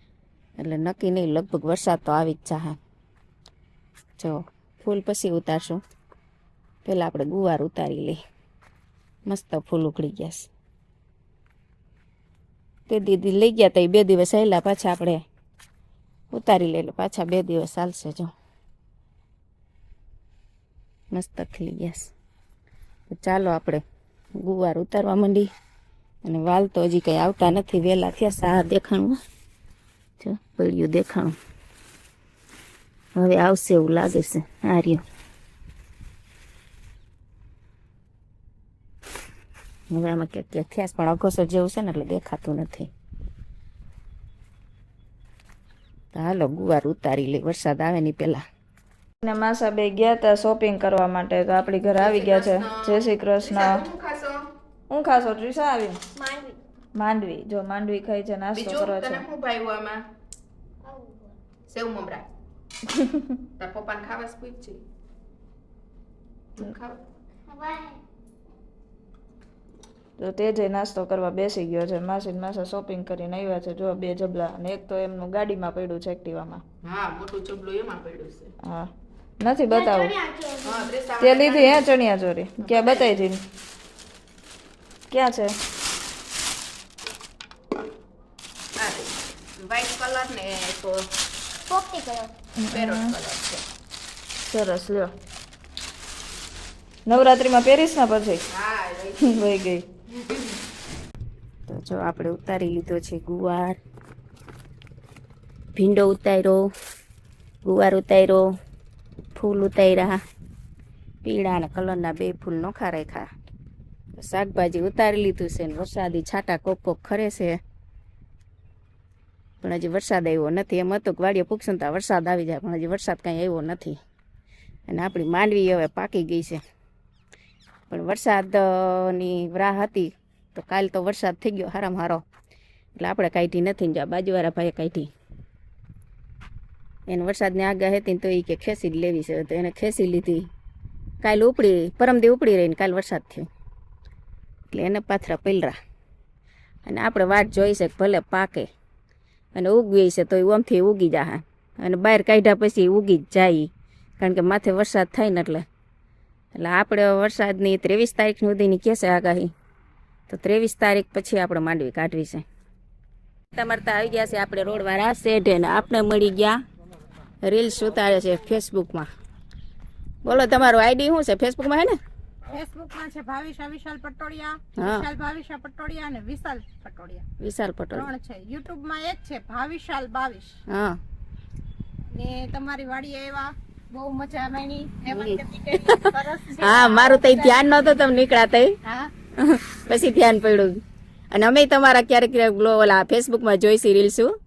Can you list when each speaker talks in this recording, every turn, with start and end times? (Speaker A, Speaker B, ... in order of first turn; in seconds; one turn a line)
Speaker A: 0.6-2.8
Speaker A: 4.2-5.8
Speaker A: 6.8-8.2
Speaker A: 9.3-10.5
Speaker A: 12.9-15.2
Speaker A: 16.3-18.3
Speaker A: 21.1-22.1
Speaker A: 23.1-23.8
Speaker A: 24.4-25.5
Speaker A: 26.2-29.2
Speaker A: 30.2-31.4
Speaker A: 33.1-35.0
Speaker A: 39.9-42.9
Speaker A: 46.1-48.4
Speaker B: 49.2-53.8
Speaker C: 52.0-54.5
Speaker B: 54.9-56.0
Speaker D: 56.1-56.6
Speaker B: 56.9-59.2
Speaker C: 58.5-60.0
Speaker D: 60.8-61.3
Speaker C: 61.7-62.2
Speaker B: 62.9-63.3
Speaker C: 63.6-64.8
Speaker C: 66.5-67.0
Speaker D: 67.5-68.0
Speaker B: 70.2-76.6
Speaker C: 76.8-78.5
Speaker B: 79.4-80.2
Speaker D: 79.7-80.9
Speaker C: 80.6-81.8
Speaker B: 81.2-83.4
Speaker C: 82.6-83.1
Speaker B: 85.1-85.5
Speaker C: 88.8-91.0
Speaker D: 91.7-92.3
Speaker B: 92.6-93.1
Speaker C: 92.7-93.6
Speaker B: 94.5-95.1
Speaker B: 97.1-98.4
Speaker C: 98.5-99.4
Speaker B: 99.3-99.8
Speaker C: 100.2-100.5
Speaker A: 101.7-103.8
Speaker A: 105.8-106.7
Speaker A: 107.6-108.5
Speaker A: 109.3-110.2
Speaker A: 111.2-113.2
Speaker A: 114.2-117.6
Speaker A: 119.6-124.0
Speaker A: 124.9-126.6
Speaker A: 127.9-132.2
Speaker A: 133.0-135.1
Speaker A: 137.1-140.5
Speaker A: 141.2-143.5
Speaker A: 144.7-145.7
Speaker A: 146.8-148.7
Speaker A: 149.5-153.7
Speaker A: 154.2-155.6
Speaker A: 156.6-159.5
Speaker A: 160.3-162.4
Speaker A: 163.5-166.6
Speaker A: 167.4-169.1
Speaker A: 170.2-172.0
Speaker E: 172.5-177.2
Speaker A: 174.8-175.0
Speaker A: 177.4-178.1
Speaker E: 177.9-180.6
Speaker A: 180.7-181.0
Speaker E: 182.1-187.9
Speaker A: 185.1-185.4
Speaker A: 186.6-188.7
Speaker E: 188.8-189.1
Speaker A: 189.4-190.8
Speaker A: 191.3-194.3